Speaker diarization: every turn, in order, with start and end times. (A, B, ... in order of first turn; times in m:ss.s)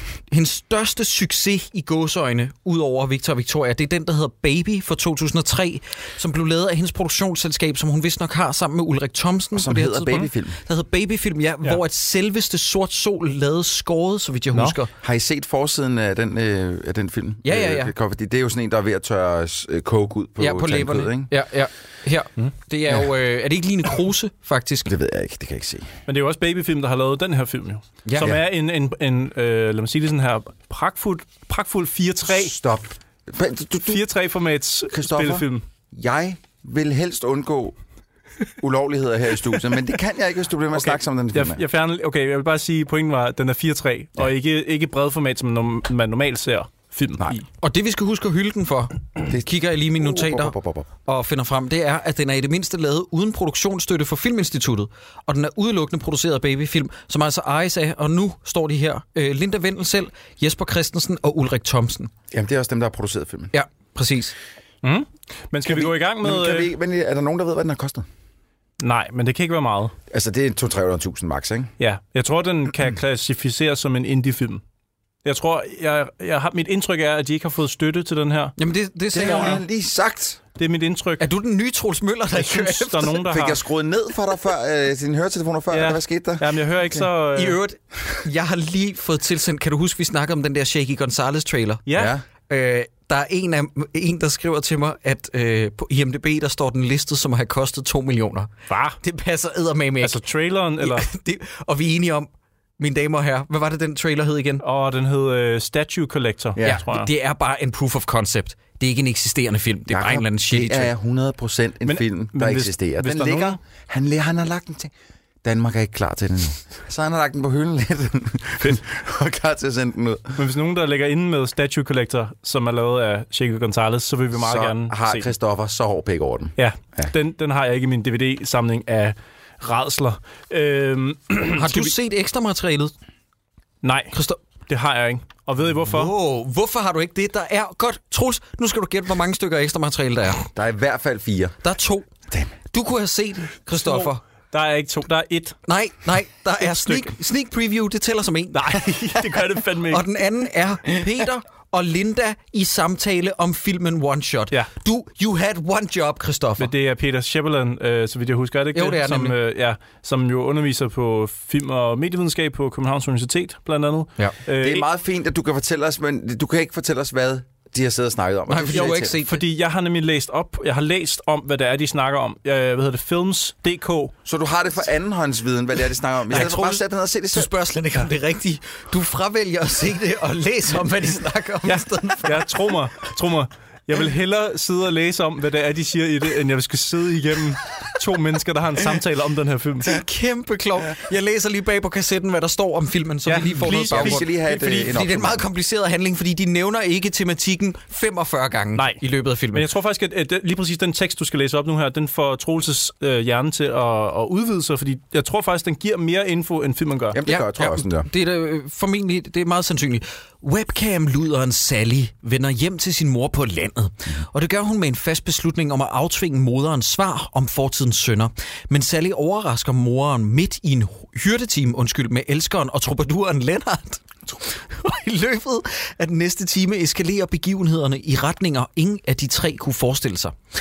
0:00.3-0:14.9 A
0:09.5-0:10.6 B
0:15.0-0:21.3 B
0:17.4-0:17.9 A
0:20.4-0:24.9 A
0:24.8-0:25.9 B
0:26.1-0:32.5 C
0:28.0-0:28.3 A
0:32.3-0:34.0 B
0:33.8-0:35.6 C
0:34.9-0:37.8 B
0:38.6-0:41.6 B
0:40.7-0:47.4 C
0:47.6-0:50.5 A
0:49.3-0:50.9 B
0:51.0-1:02.1 A
1:02.3-1:03.5 B
1:03.5-1:04.4 A
1:04.8-1:06.7 C
1:05.6-1:08.1 B
1:08.8-1:09.9 C
1:10.1-1:11.7 B
1:11.8-1:14.6 C
1:15.2-1:18.5 C
1:18.6-1:19.6 A
1:19.1-1:20.4 B
1:20.6-1:21.2 C
1:21.2-1:23.2 A
1:22.4-1:23.6 C
1:23.2-1:27.0 B
1:25.7-1:27.6 C
1:27.3-1:31.8 A
1:31.9-1:32.1 C
1:31.9-1:32.2 B
1:32.5-1:40.2 A
1:38.7-1:39.0 C
1:40.0-1:41.1 C
1:40.8-1:44.6 A
1:44.6-1:47.1 C
1:46.6-1:50.9 A
1:49.9-1:54.9 B
1:51.8-1:53.6 C
1:55.4-2:00.4 B
2:00.4-2:05.3 C
2:04.4-2:07.1 B
2:06.6-2:11.9 C
2:11.5-2:12.9 A
2:13.8-2:14.1 C
2:14.1-2:14.4 A
2:14.7-2:16.1 C
2:15.8-2:20.5 A
2:20.5-2:21.6 B
2:21.6-2:22.1 A
2:22.7-2:24.2 A
2:23.8-2:25.6 C
2:25.7-2:28.9 A
2:26.6-2:27.1 C
2:28.5-2:30.0 C
2:29.9-2:36.7 A
2:36.6-2:44.8 C
2:38.7-2:39.4 A
2:44.5-2:49.1 B
2:48.5-2:49.4 A
2:48.7-2:54.1 C
2:54.2-2:57.5 B
2:56.3-3:02.6 A
3:01.6-3:10.0 C
3:09.8-3:19.6 A
3:13.2-3:14.2 C
3:13.6-3:15.4 B
3:18.8-3:19.0 C
3:19.5-3:27.2 C
3:27.1-3:28.1 B
3:27.2-3:50.3 A